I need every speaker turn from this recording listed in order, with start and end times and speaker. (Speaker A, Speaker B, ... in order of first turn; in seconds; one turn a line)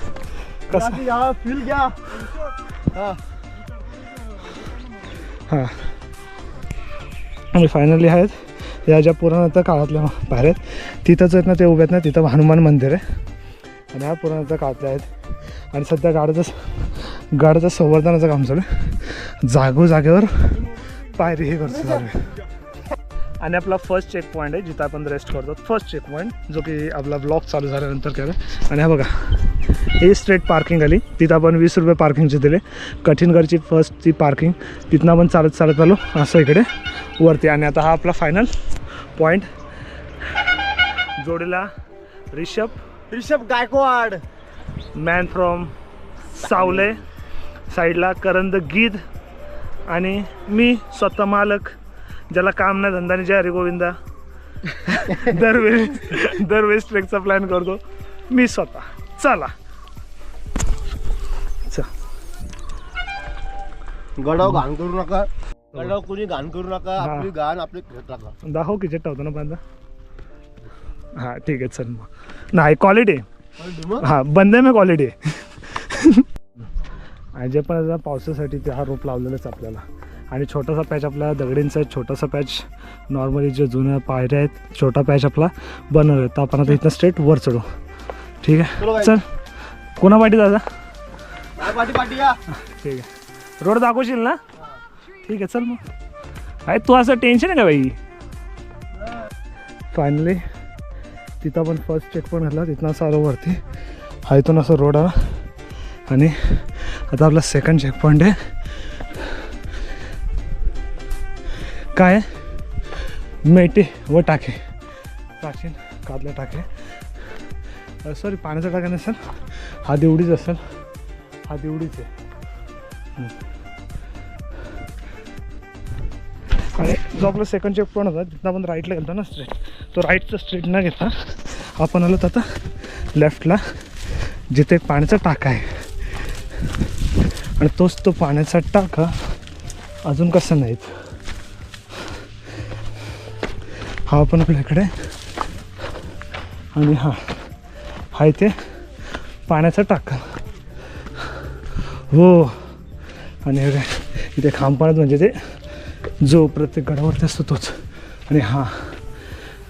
Speaker A: 0.7-3.2
Speaker B: 0.7-1.0
Speaker A: 4.0-5.2
Speaker B: 5.5-5.9
Speaker B: 7.5-13.0
Speaker B: 13.9-22.3
Speaker A: 20.5-21.0
Speaker A: 21.6-22.1
Speaker B: 23.4-38.5
Speaker B: 39.1-39.5
Speaker B: 41.2-41.7
Speaker B: 42.3-42.8
Speaker A: 43.1-44.2
Speaker B: 44.9-45.7
Speaker B: 46.4-47.0
Speaker A: 46.4-46.9
Speaker B: 47.7-49.0
Speaker B: 49.9-51.8
Speaker B: 52.3-54.0
Speaker B: 54.7-59.5
Speaker A: 64.2-68.3
Speaker B: 67.0-67.3
Speaker B: 68.4-69.6
Speaker B: 71.1-73.2
Speaker A: 73.6-74.1
Speaker B: 74.0-76.3
Speaker B: 77.3-87.7
Speaker B: 88.4-89.3
Speaker A: 88.8-89.2
Speaker B: 90.0-90.7
Speaker A: 91.6-92.4
Speaker B: 92.5-93.1
Speaker B: 93.6-94.4
Speaker B: 95.2-95.8
Speaker B: 96.7-98.0
Speaker B: 99.9-100.4
Speaker B: 101.4-103.6
Speaker B: 104.2-105.4
Speaker B: 106.1-109.5
Speaker B: 111.9-112.4
Speaker B: 113.0-114.6
Speaker B: 115.4-116.7
Speaker B: 118.0-120.6
Speaker B: 121.5-122.1
Speaker B: 126.7-136.3
Speaker B: 137.6-139.3
Speaker B: 140.1-140.9
Speaker B: 144.1-144.9
Speaker B: 146.7-147.4
Speaker B: 148.1-150.2
Speaker B: 151.2-152.7
Speaker B: 153.4-159.1